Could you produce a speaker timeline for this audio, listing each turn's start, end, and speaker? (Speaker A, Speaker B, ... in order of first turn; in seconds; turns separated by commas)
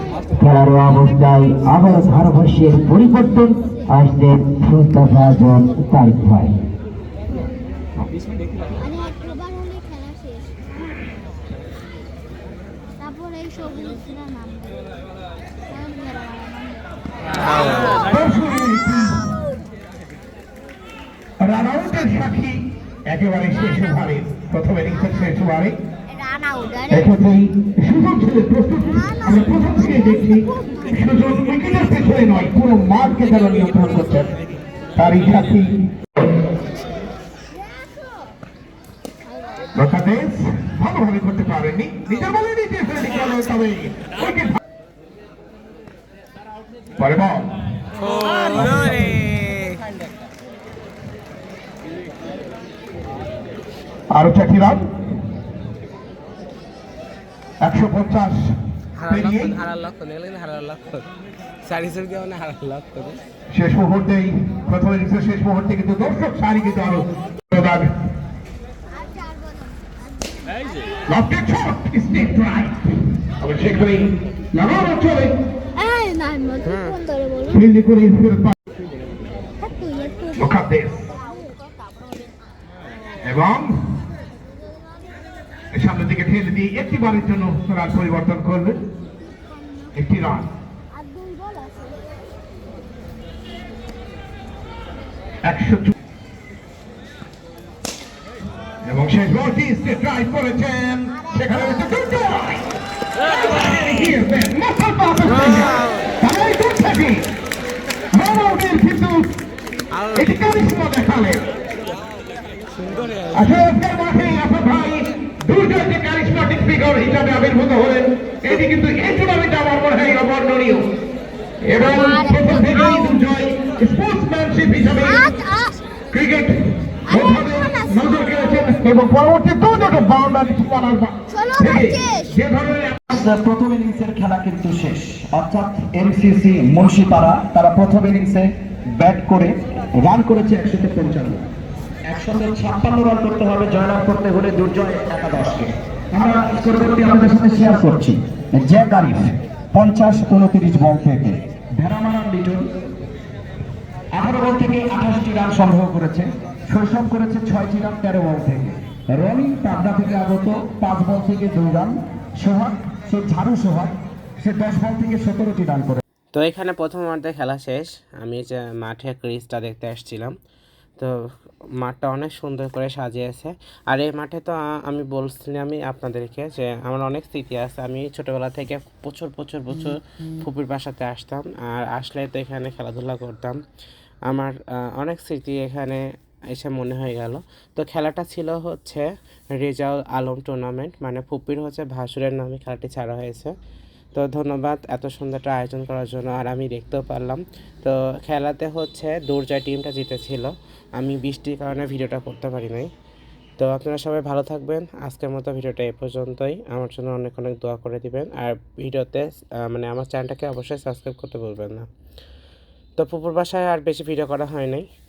Speaker A: 0.3-6.7, Speaker B: 8.8-10.6, Speaker B: 13.0-14.8, Speaker B: 15.7-16.9, Speaker C: 17.8-19.3, Speaker C: 21.4-25.8, Speaker B: 26.2-26.8, Speaker C: 26.9-34.3, Speaker C: 35.0-36.4, Speaker C: 39.7-44.6, Speaker C: 47.0-47.5, Speaker D: 48.0-49.8, Speaker C: 54.1-54.9, Speaker C: 57.6-58.4, Speaker D: 59.0-61.1, Speaker C: 59.1-59.5, Speaker D: 61.6-63.2, Speaker C: 63.5-67.9, Speaker B: 69.2-69.7, Speaker B: 70.3-70.6, Speaker C: 71.1-75.4, Speaker B: 75.8-77.4, Speaker D: 76.6-77.0, Speaker C: 77.4-78.5, Speaker B: 79.6-80.3, Speaker C: 80.3-81.1, Speaker C: 83.2-84.0, Speaker C: 85.7-88.8, Speaker C: 90.0-90.5, Speaker B: 91.1-92.0, Speaker C: 95.4-95.9, Speaker C: 98.8-102.7, Speaker C: 103.4-107.2, Speaker D: 105.3-106.1, Speaker C: 108.1-109.3, Speaker D: 109.9-110.3, Speaker C: 110.2-111.5, Speaker D: 112.8-113.4, Speaker C: 113.3-120.9, Speaker C: 121.6-125.3, Speaker B: 125.3-125.8, Speaker C: 126.1-133.1, Speaker B: 131.4-132.0, Speaker E: 133.1-141.5, Speaker E: 142.1-152.7, Speaker E: 154.1-166.0, Speaker D: 166.3-170.3, Speaker D: 171.8-183.6, Speaker D: 184.3-193.5, Speaker D: 194.1-202.9, Speaker D: 203.6-211.9, Speaker D: 213.0-214.9